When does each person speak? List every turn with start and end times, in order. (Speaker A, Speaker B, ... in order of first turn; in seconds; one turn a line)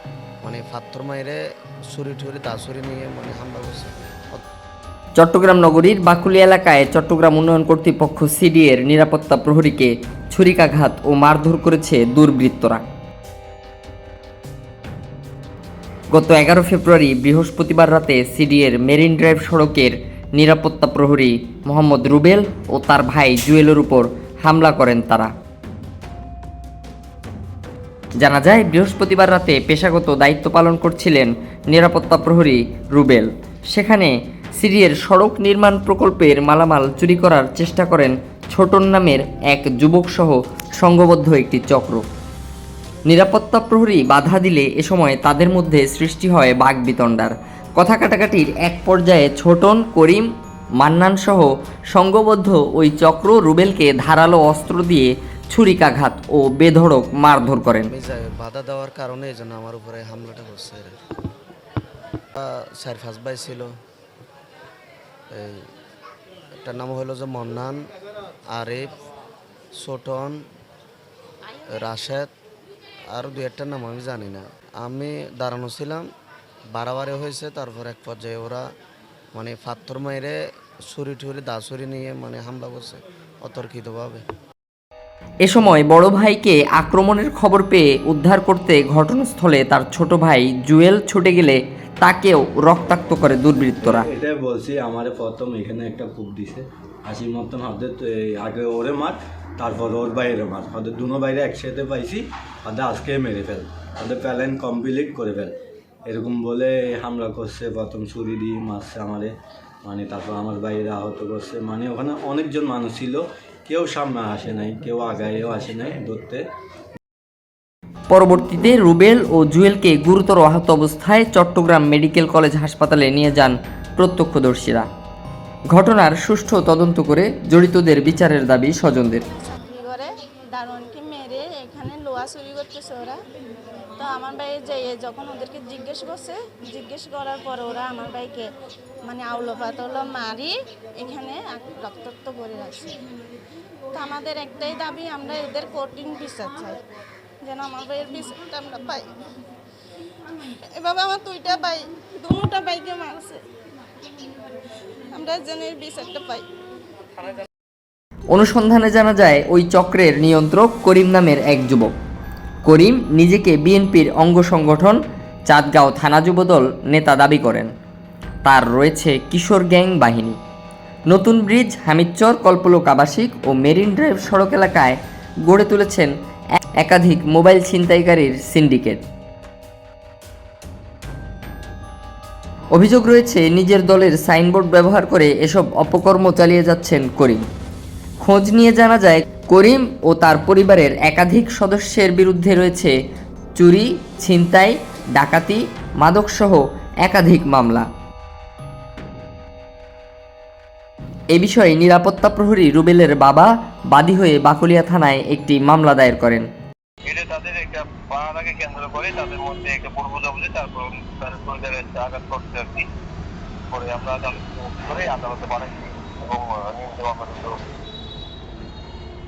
Speaker A: 0.4-1.4
Speaker A: 1.9-4.4
Speaker B: 5.2-12.8
Speaker B: 16.1-25.3
Speaker B: 28.2-42.0
Speaker B: 43.1-50.3
Speaker B: 50.8-57.9
Speaker A: 57.9-61.0
Speaker A: 62.4-63.7
Speaker A: 65.3-65.7
Speaker A: 66.6-67.8
Speaker A: 68.5-68.9
Speaker A: 69.8-70.4
Speaker A: 71.7-72.3
Speaker A: 73.1-76.1
Speaker A: 76.7-78.6
Speaker A: 79.3-80.4
Speaker A: 80.9-84.2
Speaker B: 85.4-94.1
Speaker C: 93.8-105.5
Speaker C: 106.1-109.3
Speaker C: 109.9-116.4
Speaker B: 118.1-124.9
Speaker B: 125.7-129.2
Speaker D: 129.4-133.2
Speaker D: 134.0-138.5
Speaker D: 139.1-143.0
Speaker D: 143.9-146.8
Speaker D: 147.4-149.1
Speaker D: 150.8-153.4
Speaker D: 155.1-156.5
Speaker B: 158.3-161.9
Speaker B: 162.7-165.0
Speaker B: 165.5-167.7
Speaker B: 168.4-170.4
Speaker B: 171.1-175.0
Speaker B: 175.5-176.1
Speaker B: 176.8-179.0
Speaker B: 182.7-187.4
Speaker B: 188.2-192.9
Speaker B: 193.6-197.9
Speaker B: 201.3-206.5
Speaker E: 207.0-212.9
Speaker E: 213.7-217.6